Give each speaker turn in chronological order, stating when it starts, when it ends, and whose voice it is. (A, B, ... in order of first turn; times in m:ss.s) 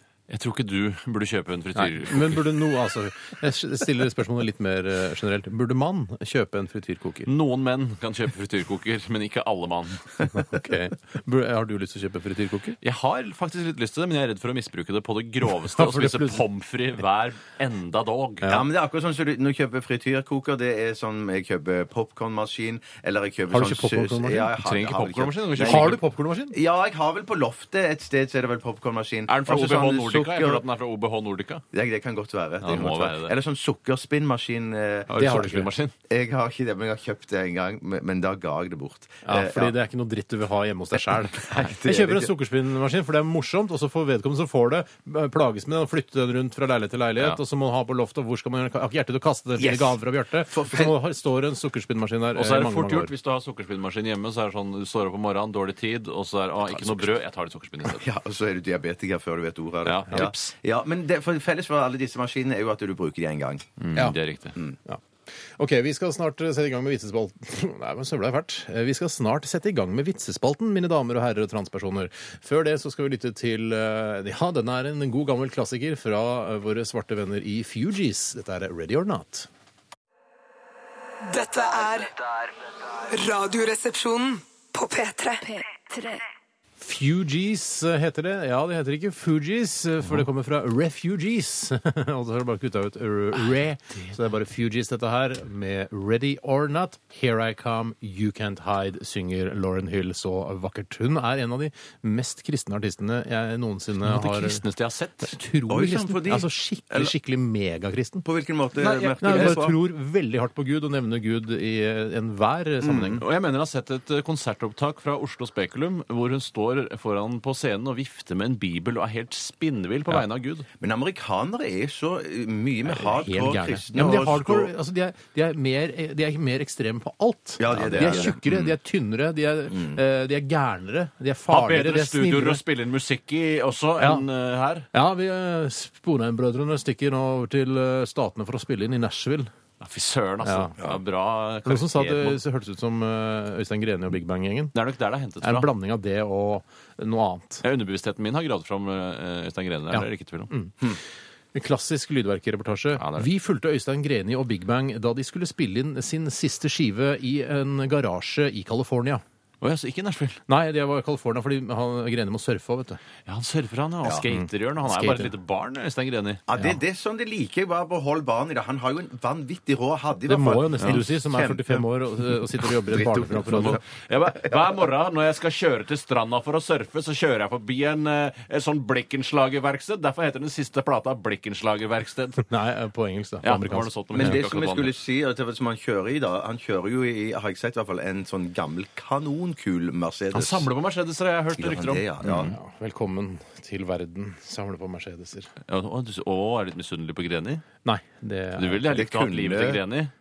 0:00.3-0:02.5 A
0:01.8-0:07.3 B
0:07.3-0:10.1 A
0:10.3-0:12.8 B
0:12.8-0:18.5 A
0:15.7-0:16.4 B
0:18.5-0:26.0 C
0:23.5-0:24.5 B
0:24.6-0:26.0 A
0:25.6-0:26.6 B
0:26.5-0:30.6 C
0:29.3-0:31.6 A
0:31.7-0:35.1 C
0:32.6-0:33.3 A
0:35.1-0:35.9 A
0:35.2-0:35.7 B
0:36.1-0:39.7 C
0:39.2-0:53.1 B
0:41.3-0:42.3 C
0:49.6-0:50.9 C
0:52.3-0:58.0 A
0:57.9-1:03.7 C
0:59.8-1:00.5 A
1:03.8-1:04.6 A
1:05.6-1:19.5 B
1:21.2-1:22.2 D
1:23.1-1:26.2 D
1:26.8-1:44.6 B
1:44.0-1:45.3 A
1:45.2-1:48.2 B
1:45.7-1:47.1 C
1:48.2-1:49.8 C
1:48.8-1:49.6 A
1:49.2-1:53.2 B
1:52.8-1:53.2 C
1:53.2-2:00.7 A
2:00.8-2:04.7 C
2:02.9-2:12.6 B
2:07.6-2:08.7 C
2:07.9-2:08.3 A
2:09.7-2:10.0 C
2:11.5-2:14.9 A
2:14.0-2:14.2 B
2:14.9-2:19.5 B
2:19.8-2:22.4 A
2:20.4-2:20.7 B
2:21.6-2:24.7 B
2:24.7-2:25.7 A
2:25.4-2:27.6 B
2:27.6-2:30.5 A
2:29.9-2:30.7 B
2:31.5-2:39.2 B
2:33.0-2:33.3 A
2:39.6-2:40.4 A
2:40.5-2:43.0 B
2:43.2-2:46.4 A
2:44.3-2:45.3 B
2:46.5-2:51.9 C
2:50.3-2:53.8 B
2:52.6-2:54.8 C
2:53.4-3:02.5 A
3:02.5-3:04.4 B
3:03.4-3:04.9 A
3:04.1-3:10.7 C
3:10.3-3:12.6 A
3:11.5-3:12.6 C
3:12.3-3:15.5 B
3:15.7-3:17.6 A
3:17.8-3:18.8 B
3:18.6-3:20.1 A
3:18.9-3:19.8 C